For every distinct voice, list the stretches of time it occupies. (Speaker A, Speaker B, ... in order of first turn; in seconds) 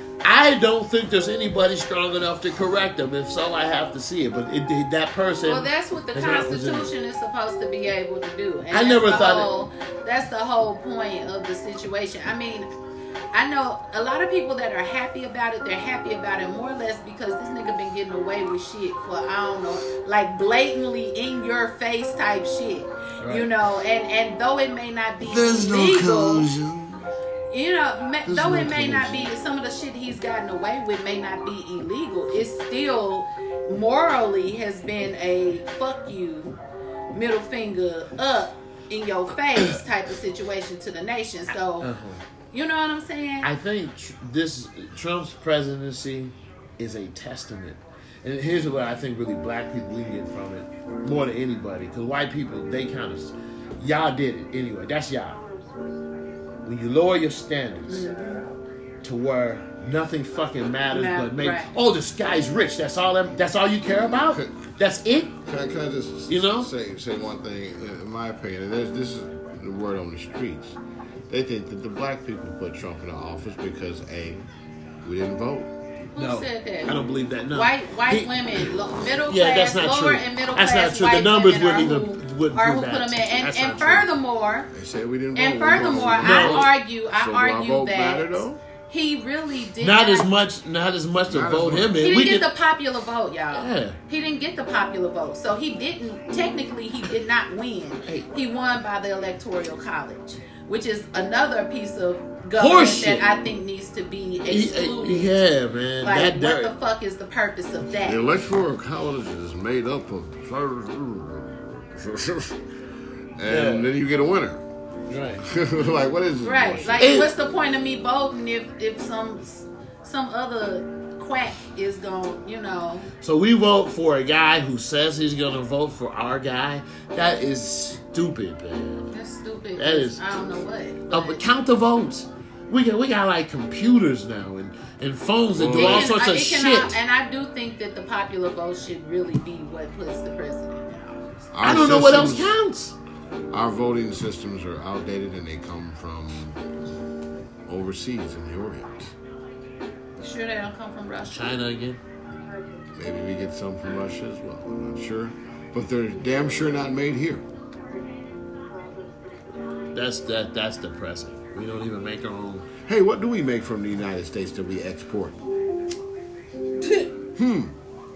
Speaker A: 0.2-6.9, 8.7-9.5, 23.2-23.5, 28.3-29.2, 41.8-42.2, 43.4-55.4, 56.6-58.1, 59.0-65.4, 66.3-66.7, 76.2-84.1, 86.2-86.7, 89.8-92.5, 93.5-94.0, 102.5-103.3, 104.5-106.7, 113.5-113.9, 115.1-115.5, 117.0-117.3, 123.2-129.1, 129.8-137.0, 141.6-142.9, 151.3-152.0, 159.9-162.7
Speaker B: 5.4-12.7, 13.3-26.5, 27.5-36.5, 37.1-41.9, 42.5-43.5, 57.9-58.4, 60.9-61.7, 76.1-77.0, 77.5-84.7, 85.3-90.3, 92.0-105.4, 106.0-108.2, 116.4-123.1, 129.1-131.4, 135.7-141.4, 150.2-151.5, 166.8-167.1
Speaker C: 25.3-27.0, 28.3-29.1, 65.4-70.8, 71.3-74.4, 75.0-75.7, 84.7-88.6, 91.3-92.1, 108.0-112.6, 113.4-114.6, 115.4-117.0, 135.5-136.1, 141.5-142.6, 143.5-146.6, 147.7-149.1, 153.0-157.4, 162.8-165.4, 167.4-167.7